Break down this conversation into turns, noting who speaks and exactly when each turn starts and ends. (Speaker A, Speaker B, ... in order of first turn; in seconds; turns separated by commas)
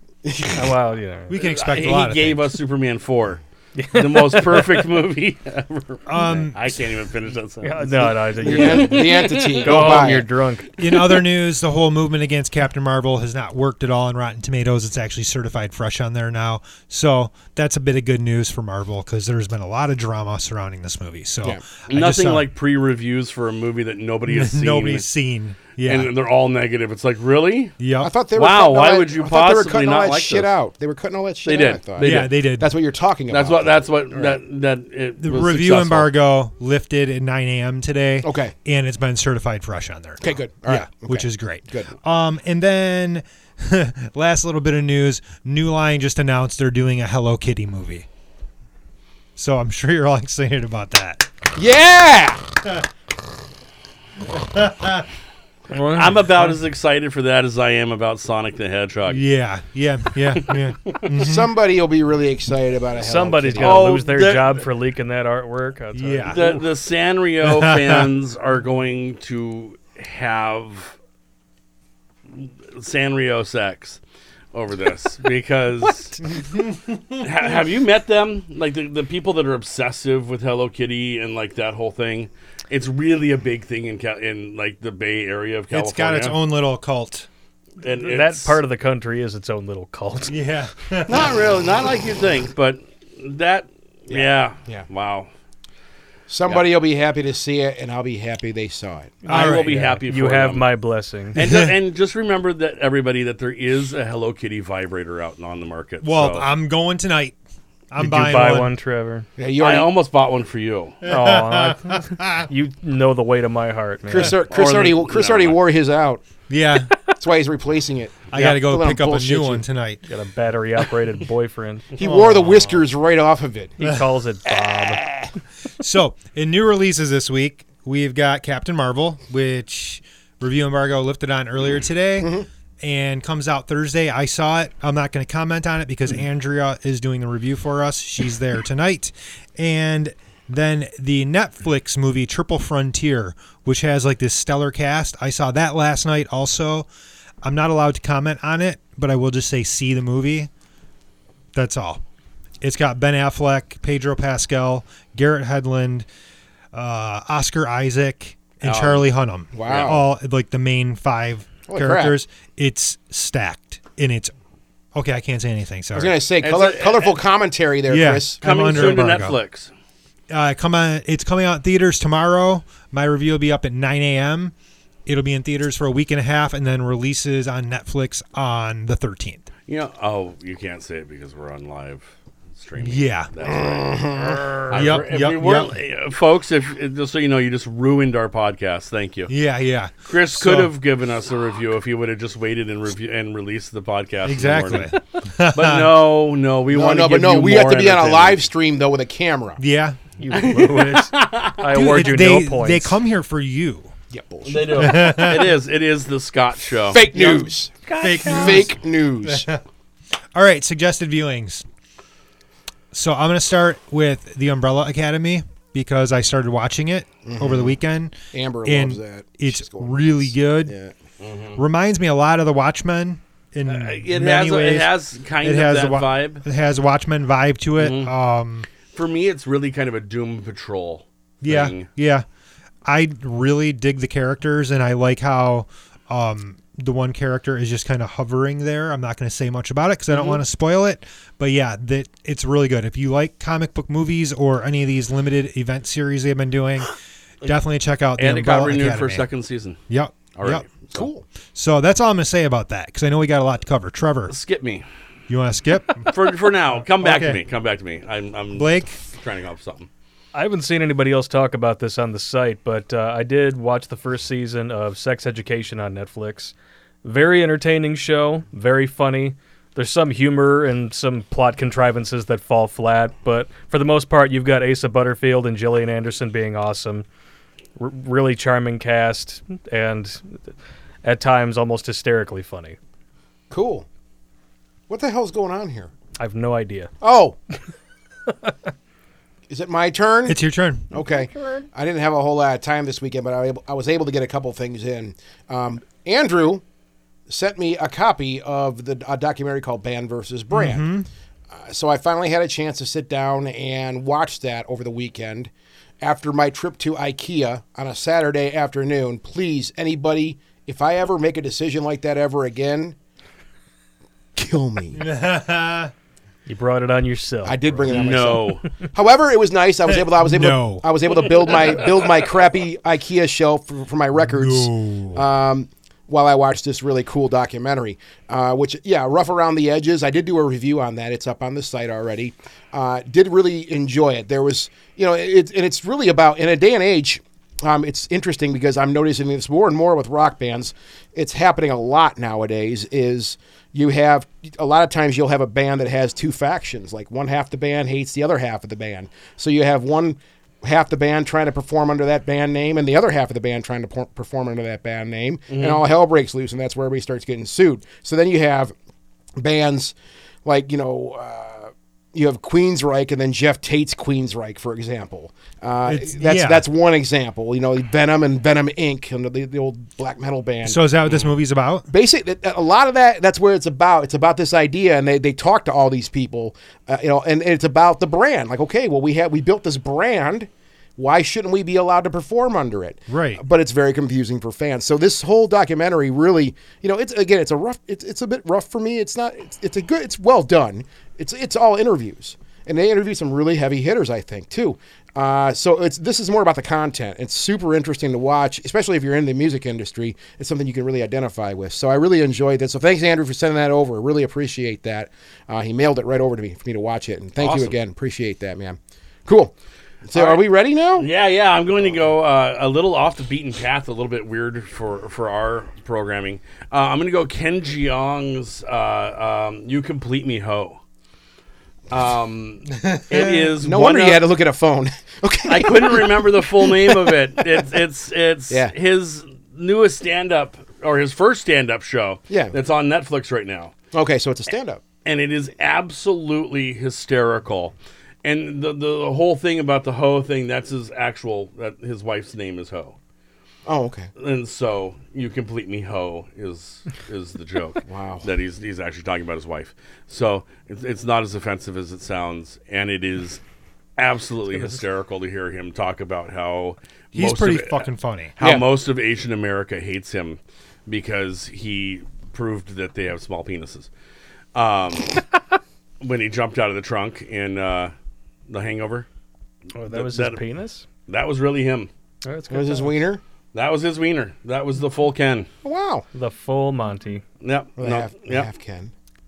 Speaker A: 0.2-0.8, Speaker B: 0.5-1.4, Speaker C: 1.3-2.5, Speaker D: 1.4-10.2, Speaker B: 3.8-4.8, Speaker C: 6.1-6.8, Speaker B: 7.6-11.2, Speaker A: 8.4-10.3, Speaker C: 10.8-22.5, Speaker D: 21.9-25.1, Speaker C: 24.3-26.1, Speaker D: 25.9-27.8, Speaker C: 27.8-28.1, Speaker A: 28.0-34.4, Speaker D: 28.3-30.5, Speaker D: 31.4-32.3, Speaker C: 32.0-32.7, Speaker D: 33.3-36.1, Speaker C: 35.2-48.1, Speaker A: 38.2-38.5, Speaker A: 40.2-41.9, Speaker C: 49.4-51.3, Speaker A: 51.5-52.6, Speaker C: 54.3-55.1, Speaker B: 55.7-56.6, Speaker D: 55.9-59.2, Speaker C: 59.1-61.5, Speaker D: 60.5-61.1, Speaker A: 61.1-63.9, Speaker B: 63.0-66.6, Speaker D: 63.6-64.7, Speaker C: 65.9-66.4, Speaker D: 66.3-71.0, Speaker C: 67.4-68.1, Speaker D: 72.3-74.0, Speaker D: 74.5-76.3, Speaker C: 76.3-77.2, Speaker D: 77.2-86.4, Speaker C: 85.7-87.3, Speaker D: 87.8-88.6, Speaker B: 87.9-90.4, Speaker C: 90.3-91.3, Speaker D: 91.1-95.3, Speaker A: 94.1-94.9, Speaker A: 96.3-99.2, Speaker D: 99.2-100.7, Speaker B: 99.2-101.4, Speaker C: 99.3-100.0, Speaker D: 101.3-106.5, Speaker C: 101.4-101.7, Speaker C: 106.0-107.4, Speaker C: 107.9-108.7, Speaker B: 108.0-109.3, Speaker A: 109.4-109.9, Speaker D: 109.6-111.0, Speaker C: 111.0-112.5, Speaker B: 111.0-114.3, Speaker A: 114.1-116.2, Speaker D: 114.5-115.6, Speaker C: 116.5-116.9, Speaker A: 117.1-119.6, Speaker C: 118.3-120.0, Speaker B: 120.1-121.9, Speaker A: 122.0-123.8, Speaker C: 122.0-122.8, Speaker B: 123.8-125.0, Speaker A: 124.5-125.3, Speaker C: 125.8-146.9, Speaker A: 132.2-132.5, Speaker C: 147.4-150.5, Speaker C: 151.5-152.0, Speaker C: 152.6-156.1, Speaker C: 156.7-164.3, Speaker D: 158.6-159.1, Speaker A: 159.5-160.0, Speaker A: 161.7-162.2, Speaker C: 164.9-166.2, Speaker A: 165.9-169.0, Speaker D: 166.4-167.2, Speaker C: 167.9-169.4, Speaker D: 168.4-169.7, Speaker C: 170.3-174.5, Speaker C: 175.1-179.4, Speaker D: 179.7-189.3, Speaker C: 182.8-183.3, Speaker A: 183.4-184.9, Speaker C: 184.7-185.8, Speaker C: 189.3-190.7, Speaker D: 190.1-195.0, Speaker C: 194.2-196.0, Speaker D: 195.5-198.5, Speaker A: 196.7-199.6, Speaker C: 199.6-200.0, Speaker B: 200.2-203.0, Speaker D: 200.3-201.6, Speaker C: 201.7-203.9, Speaker A: 204.1-205.2, Speaker D: 204.4-207.4, Speaker C: 204.8-205.5, Speaker A: 206.9-207.7, Speaker B: 207.9-208.6, Speaker C: 208.0-209.6, Speaker A: 208.2-209.5, Speaker C: 210.3-211.7, Speaker C: 212.9-220.8, Speaker A: 217.2-217.8, Speaker A: 218.3-220.9, Speaker D: 221.2-221.6, Speaker C: 221.6-228.7, Speaker D: 223.7-226.4, Speaker D: 227.8-228.1, Speaker D: 228.9-231.9, Speaker C: 231.4-232.2, Speaker C: 232.9-246.9, Speaker C: 247.4-249.2, Speaker D: 248.2-249.8, Speaker C: 249.9-250.7, Speaker D: 250.3-251.1, Speaker A: 250.9-251.2, Speaker C: 251.5-254.3, Speaker D: 254.3-254.8, Speaker C: 255.3-256.1, Speaker D: 256.1-259.9, Speaker C: 257.0-257.4, Speaker C: 258.5-258.9, Speaker B: 260.3-277.1, Speaker B: 277.8-280.4, Speaker B: 281.0-282.8, Speaker A: 283.5-283.9, Speaker A: 284.9-285.9, Speaker B: 286.2-286.9, Speaker A: 287.0-287.4, Speaker A: 289.5-296.6, Speaker C: 290.3-290.9, Speaker A: 297.3-300.9, Speaker C: 300.5-301.1, Speaker A: 301.5-305.5, Speaker A: 306.0-313.0, Speaker A: 314.4-315.0, Speaker C: 314.9-315.9, Speaker B: 316.5-318.4, Speaker A: 317.4-358.7, Speaker D: 317.9-318.6, Speaker C: 319.9-320.9, Speaker C: 324.2-325.2, Speaker D: 355.5-355.8, Speaker A: 359.4-370.8, Speaker C: 365.9-366.7, Speaker C: 370.6-371.9, Speaker A: 371.9-409.5, Speaker C: 383.1-383.4, Speaker D: 407.4-407.8, Speaker A: 410.1-411.1, Speaker D: 410.1-420.8, Speaker D: 421.9-424.3, Speaker C: 422.8-423.4, Speaker A: 423.6-427.6, Speaker D: 425.5-433.7, Speaker A: 432.3-432.6, Speaker A: 433.9-434.8, Speaker D: 435.1-443.0, Speaker A: 443.7-444.1, Speaker D: 444.2-453.4, Speaker A: 447.9-448.3, Speaker D: 454.0-463.9, Speaker C: 457.1-458.4, Speaker A: 458.4-458.7, Speaker D: 464.6-465.2, Speaker D: 466.0-467.9, Speaker D: 468.5-469.1, Speaker B: 469.8-470.9, Speaker D: 469.9-470.4, Speaker D: 471.1-471.9, Speaker B: 472.2-473.0, Speaker A: 472.5-473.2, Speaker D: 473.5-475.5, Speaker A: 475.6-476.1, Speaker B: 476.1-477.2, Speaker D: 477.4-478.5, Speaker A: 477.8-478.9